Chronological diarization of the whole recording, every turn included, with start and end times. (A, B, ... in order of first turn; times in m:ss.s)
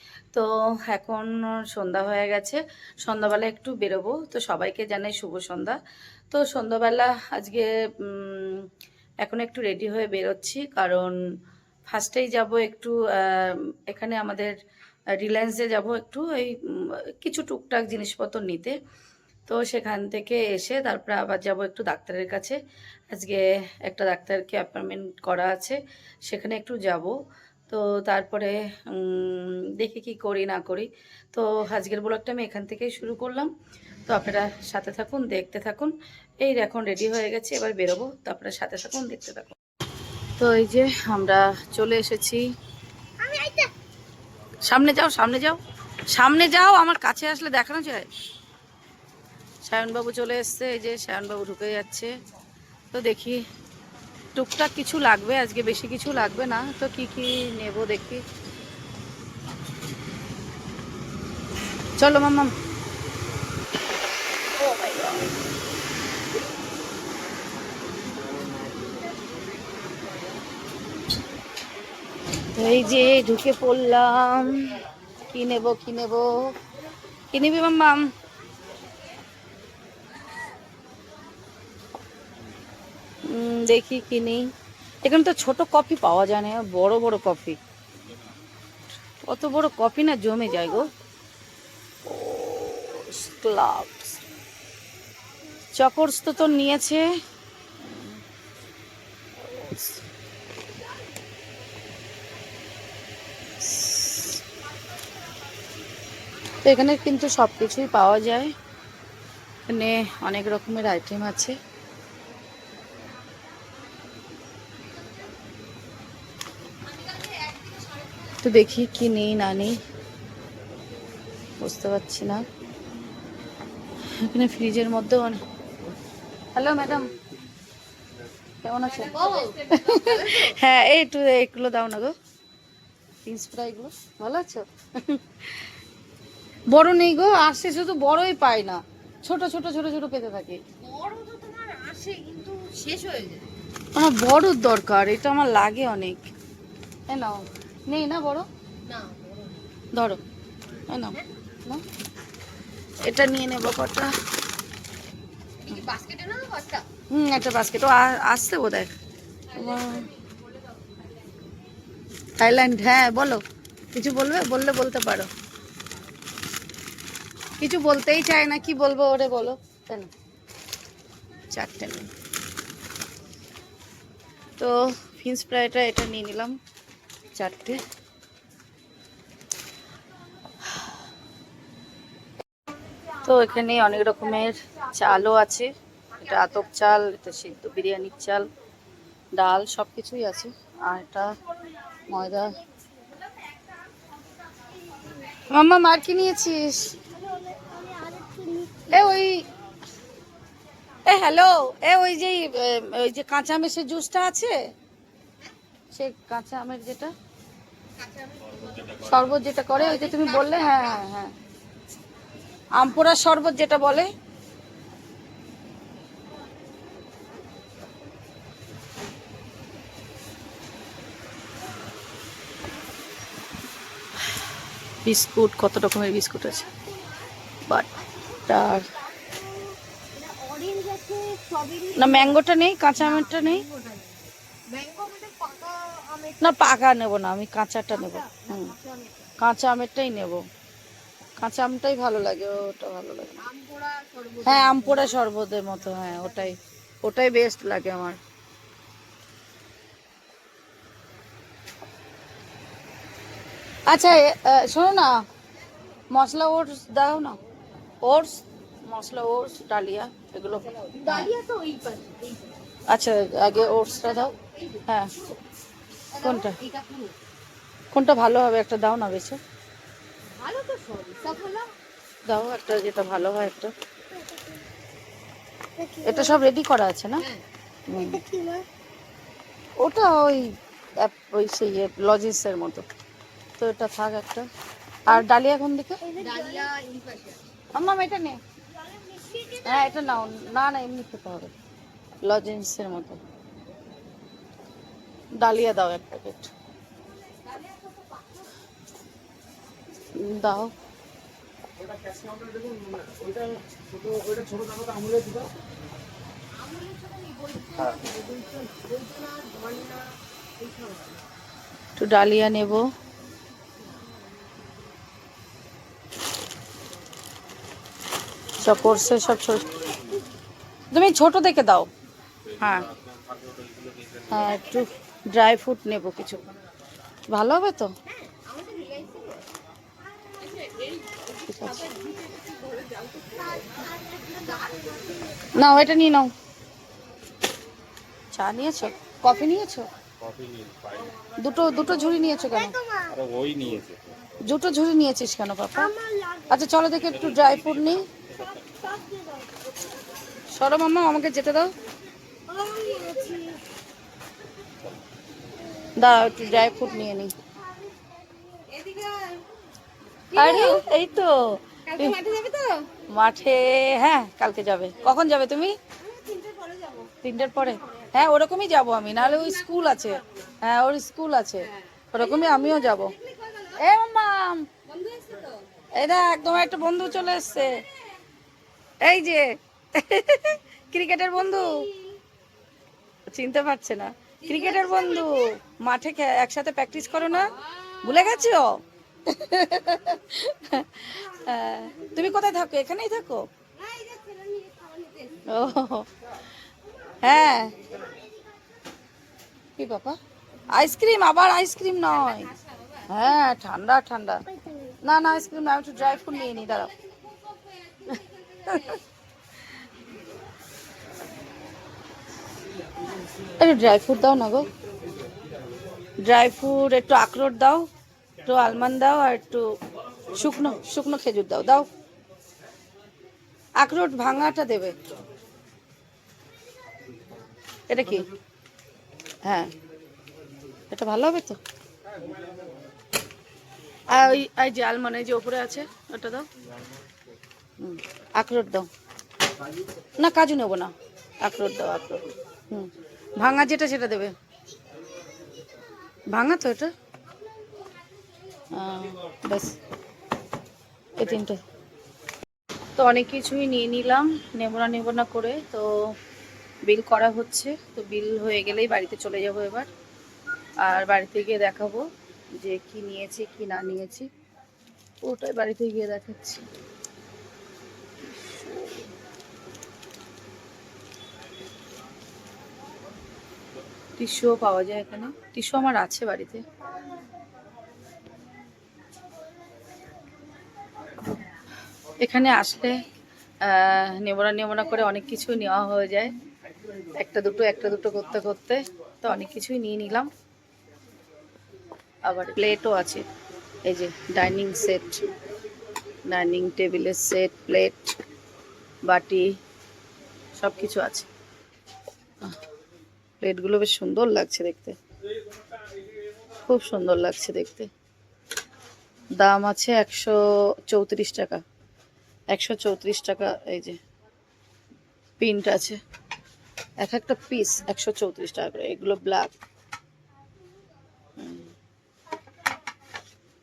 0:00.3-0:05.8 A
0:06.3-0:08.7 A
0:09.2-0:11.2 A
0:11.9-0:14.6 A
0:15.2-0:18.8 A
0:19.5-0:22.6 A
0:23.1-0:27.2 A
0:27.7-0:33.5 A
0:34.1-0:39.6 A
0:40.4-0:42.4 A
0:43.2-0:43.7 B
0:44.7-0:45.6 A
0:46.1-0:48.1 A
0:49.7-0:52.1 A
0:52.9-0:53.4 A
0:54.4-0:58.2 A
1:02.0-1:02.5 A
1:04.6-1:05.3 A
1:12.6-1:14.7 A
1:15.3-1:16.6 A
1:17.3-1:18.1 A
1:23.2-1:24.5 A
1:25.0-1:27.6 A
1:29.2-1:30.9 A
1:32.0-1:34.2 A
1:35.8-1:37.1 A
1:37.8-1:38.2 A
1:39.4-1:40.0 A
1:43.6-1:44.4 A
1:44.8-1:45.6 C
1:46.4-1:47.6 C
1:46.6-1:48.6 A
1:49.7-1:51.6 A
1:54.8-1:55.3 C
1:56.9-1:58.9 C
1:58.4-1:59.8 A
2:01.6-2:02.5 A
2:04.2-2:05.4 A
2:06.6-2:07.1 A
2:08.6-2:12.2 A
2:08.9-2:10.6 C
2:13.2-2:15.6 A
2:16.7-2:20.6 A
2:20.8-2:23.5 C
2:24.0-2:26.2 A
2:27.1-2:28.5 A
2:28.9-2:29.6 C
2:29.9-2:30.2 A
2:30.9-2:31.8 A
2:33.1-2:34.1 A
2:35.6-2:36.8 C
2:37.1-2:38.9 A
2:39.5-2:41.5 C
2:39.5-2:40.1 A
2:42.4-2:45.3 A
2:47.6-2:50.1 A
2:51.5-2:52.1 A
2:54.6-2:56.6 A
2:57.4-2:57.8 A
3:03.2-3:08.5 A
3:03.5-3:05.2 C
3:06.2-3:06.7 C
3:09.4-3:11.4 A
3:11.7-3:12.0 C
3:12.1-3:12.6 A
3:13.4-3:13.9 C
3:14.6-3:15.3 C
3:15.5-3:17.0 A
3:17.0-3:19.2 B
3:18.9-3:19.4 A
3:21.1-3:24.6 A
3:25.9-3:27.1 A
3:28.0-3:29.1 C
3:29.0-3:31.3 A
3:29.8-3:31.0 C
3:32.8-3:34.1 A
3:45.0-3:46.7 A
3:46.4-3:47.3 C
3:47.9-3:52.4 C
3:48.5-3:48.9 A
3:52.0-3:53.6 A
3:53.0-3:56.7 C
3:56.4-3:58.7 A
3:57.9-3:59.4 C
3:59.4-4:00.4 A
4:01.4-4:03.4 A
4:03.4-4:05.2 C
4:04.4-4:08.2 A
4:05.8-4:06.6 C
4:13.9-4:15.2 A
4:16.1-4:17.4 A
4:18.0-4:21.3 A
4:20.7-4:22.5 C
4:22.9-4:24.3 A
4:23.5-4:24.8 C
4:24.9-4:25.2 A
4:26.1-4:27.1 C
4:26.2-4:26.6 A
4:27.9-4:29.4 A
4:30.3-4:31.7 C
4:32.3-4:33.7 A
4:34.1-4:34.6 B
4:35.8-4:36.4 B
4:36.0-4:37.2 A
4:37.9-4:38.2 A
4:37.9-4:38.7 B
4:39.8-4:42.8 A
4:43.6-4:44.5 A
4:45.1-4:46.0 A
4:46.0-4:46.7 B
4:46.2-4:47.5 C
4:47.7-4:48.4 A
4:48.7-4:50.6 B
4:49.6-4:51.5 A
4:52.2-4:53.2 A
4:55.4-4:56.5 A
4:57.2-4:58.5 C
5:00.2-5:00.7 A
5:06.5-5:11.2 C
5:12.0-5:12.9 A
5:18.6-5:19.7 A
5:18.6-5:20.2 C
5:20.9-5:21.9 A
5:22.6-5:22.9 A
5:24.3-5:26.4 A
5:27.3-5:27.9 A
5:28.1-5:29.5 C
5:30.3-5:35.5 C
5:31.5-5:31.9 A
5:33.4-5:35.4 B
5:35.6-5:36.3 A
5:38.3-5:39.9 A
5:39.2-5:39.6 B
5:41.4-5:42.8 A
5:42.2-5:43.2 B
5:44.5-5:45.9 A
5:45.7-5:46.6 B
5:46.5-5:48.1 A
5:48.3-5:49.7 B
5:50.5-5:51.7 A
5:52.5-5:53.6 B
5:52.9-5:53.6 C
5:55.6-5:58.7 B
5:56.0-5:57.3 A
5:58.7-5:59.5 C
6:00.3-6:00.9 C
6:00.4-6:02.2 A
6:01.9-6:02.9 C
6:03.1-6:05.8 A
6:06.0-6:08.1 C
6:07.2-6:13.1 A
6:09.2-6:10.5 C
6:12.2-6:13.8 C
6:13.8-6:14.7 A
6:14.8-6:15.7 C
6:15.9-6:17.8 A
6:19.0-6:21.9 A
6:21.4-6:22.2 C
6:23.3-6:33.5 A
6:24.4-6:25.5 C
6:27.3-6:28.4 C
6:31.6-6:32.2 C
6:33.8-6:35.5 C
6:35.5-6:36.1 A
6:37.2-6:37.8 A
6:37.7-6:38.9 B
6:39.8-6:40.2 A
6:40.7-6:42.5 A
6:42.2-6:43.1 C
6:43.1-6:44.4 A
6:44.4-6:45.0 B
6:45.0-6:46.9 A
6:46.0-6:49.0 C
6:48.7-6:49.0 A
6:53.6-6:54.7 A
6:56.2-6:57.9 A
6:58.4-6:59.7 A
7:00.3-7:01.9 A
7:03.8-7:05.0 A
7:07.9-7:08.3 A
7:09.5-7:09.7 A
7:10.9-7:11.6 A
7:14.1-7:16.5 A
7:17.8-7:18.9 A
7:20.2-7:24.3 A
7:24.5-7:26.3 B
7:26.3-7:26.9 A
7:27.6-7:28.7 C
7:28.7-7:29.8 A
7:31.2-7:31.6 A
7:33.0-7:35.9 A
7:36.8-7:39.9 A
7:40.8-7:42.1 A
7:42.6-7:44.3 A
7:45.2-7:46.6 A
7:48.6-7:49.0 A
7:54.2-7:56.7 A
7:56.8-7:57.6 B
7:59.2-8:01.1 B
8:02.2-8:03.0 A
8:03.6-8:06.3 A
8:07.1-8:10.3 A
8:12.2-8:13.3 A
8:13.8-8:15.3 A
8:16.3-8:18.1 A
8:19.0-8:19.5 A
8:20.6-8:21.3 A
8:23.4-8:25.0 A
8:26.7-8:27.9 A
8:29.4-8:31.6 A
8:32.5-8:34.0 A
8:35.4-8:36.0 A
8:37.0-8:39.5 A
8:41.4-8:41.7 A
8:42.3-8:43.0 B